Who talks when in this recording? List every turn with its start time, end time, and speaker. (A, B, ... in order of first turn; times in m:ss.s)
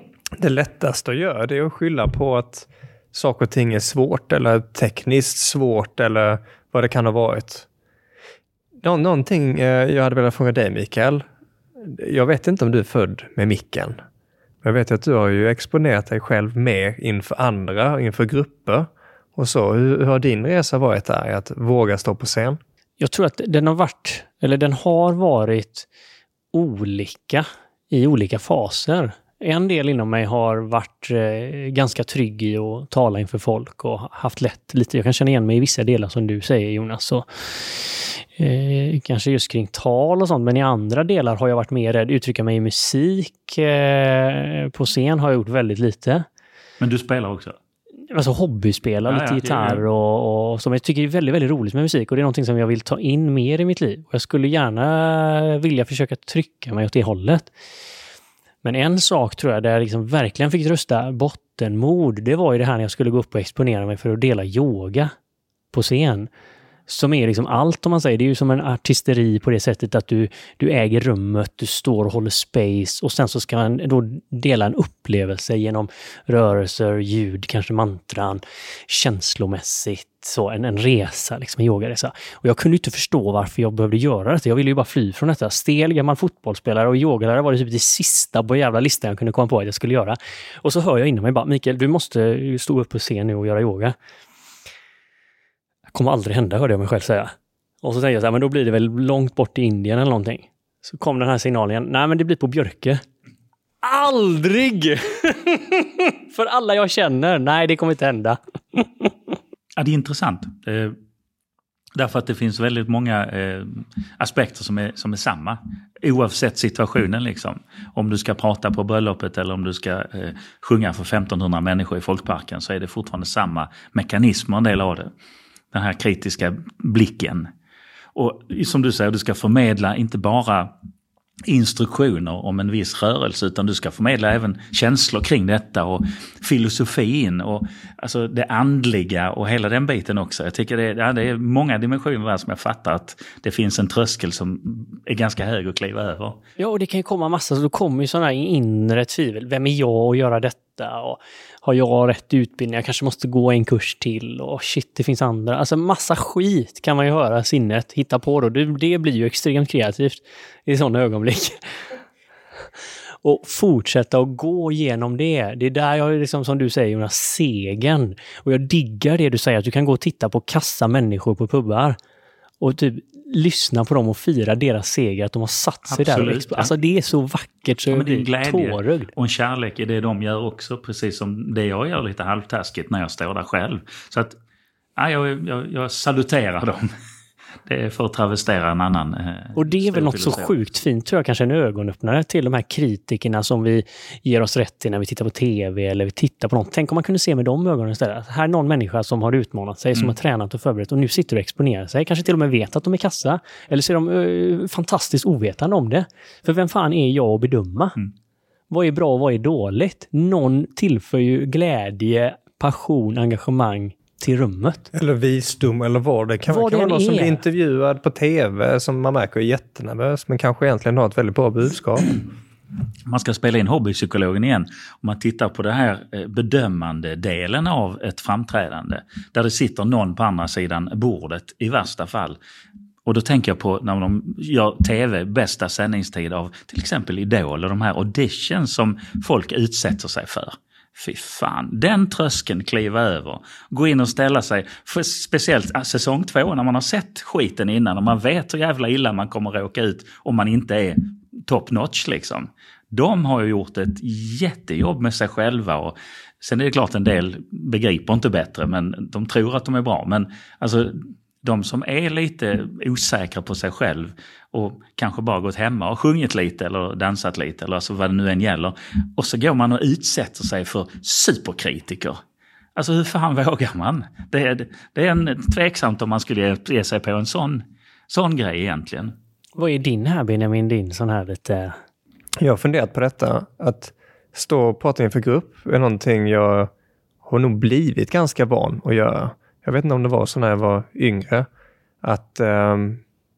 0:00.4-0:07.7 A
0:08.8-0:11.2 A
0:11.8-0:14.0 A
0:14.6-0:22.6 A
0:23.0-0:25.9 B
0:26.5-0:46.3 B
0:46.8-0:47.6 C
0:48.1-0:57.5 B
0:49.1-0:49.8 C
0:58.6-1:05.1 B
1:05.7-1:06.3 B
1:06.9-1:34.0 B
1:35.9-1:43.0 B
1:43.8-1:49.1 B
1:49.8-1:51.0 C
1:52.0-2:05.1 C
2:05.7-2:07.5 C
2:08.2-2:10.7 C
2:11.5-2:26.4 C
2:26.6-2:41.6 B
2:43.2-2:52.0 B
2:52.6-2:59.1 B
2:55.9-2:56.7 C
2:57.9-3:04.4 C
3:05.0-3:06.9 C
3:07.7-3:10.5 C
3:09.6-3:28.0 B
3:28.7-3:34.9 B
3:34.9-3:42.2 A
3:36.5-3:37.4 B
3:43.1-3:52.4 C
3:53.1-4:32.2 C
4:32.8-4:39.2 C
4:39.6-4:41.8 B
4:42.4-4:46.7 A
4:47.2-4:51.5 A
4:52.0-4:53.0 A